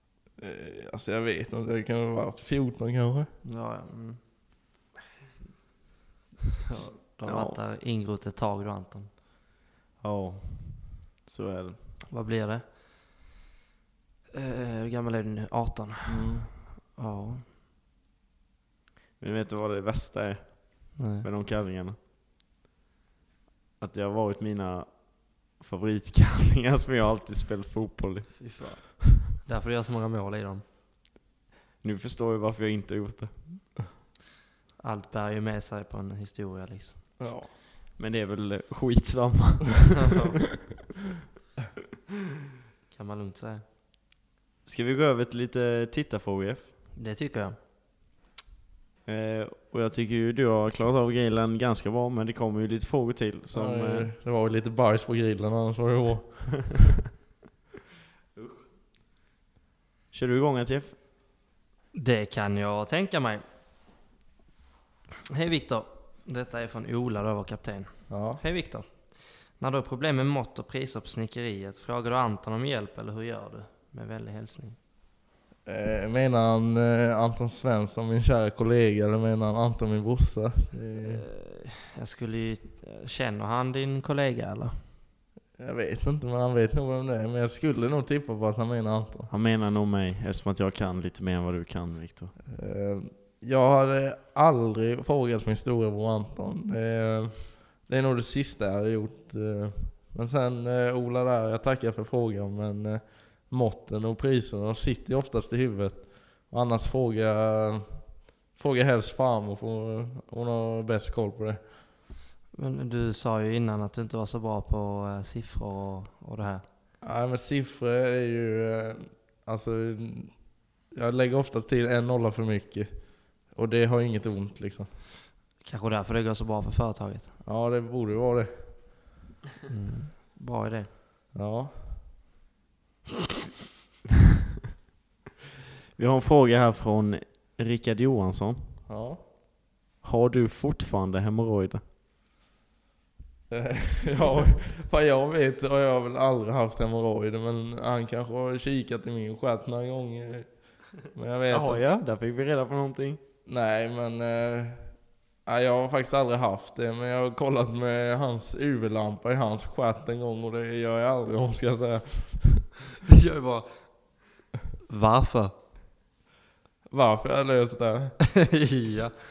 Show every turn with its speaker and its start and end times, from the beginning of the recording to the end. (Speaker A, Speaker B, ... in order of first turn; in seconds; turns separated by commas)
Speaker A: 0.4-3.3, Speaker B: 3.4-4.2, Speaker B: 6.7-9.1, Speaker C: 7.2-7.6, Speaker C: 10.0-11.8, Speaker B: 12.1-12.6, Speaker B: 14.3-17.4, Speaker C: 16.1-16.4, Speaker C: 19.2-22.0, Speaker B: 21.0-21.3, Speaker C: 23.8-28.5, Speaker B: 28.4-30.6, Speaker C: 31.8-33.5, Speaker B: 34.8-37.1, Speaker A: 37.2-37.5, Speaker C: 38.0-40.1, Speaker B: 40.0-40.4, Speaker B: 42.9-43.6, Speaker C: 44.7-46.7, Speaker B: 47.0-47.6, Speaker C: 49.1-54.1, Speaker A: 53.5-56.9, Speaker C: 58.4-58.7, Speaker C: 60.1-61.0, Speaker B: 61.9-63.4, Speaker B: 65.3-74.8, Speaker A: 68.1-68.4, Speaker A: 75.7-81.2, Speaker B: 81.0-84.8, Speaker A: 85.6-89.3, Speaker C: 89.3-92.4, Speaker A: 92.5-111.6, Speaker B: 112.5-116.6, Speaker A: 117.0-124.9, Speaker B: 125.6-127.3, Speaker A: 127.4-128.7, Speaker B: 129.7-130.9, Speaker A: 131.3-132.0, Speaker C: 136.0-138.8, Speaker A: 138.9-139.3, Speaker C: 140.0-141.8, Speaker A: 143.5-151.8, Speaker C: 151.5-153.2, Speaker A: 153.5-162.7, Speaker B: 163.1-164.2, Speaker B: 164.9-165.5, Speaker A: 166.9-168.2, Speaker B: 168.4-169.1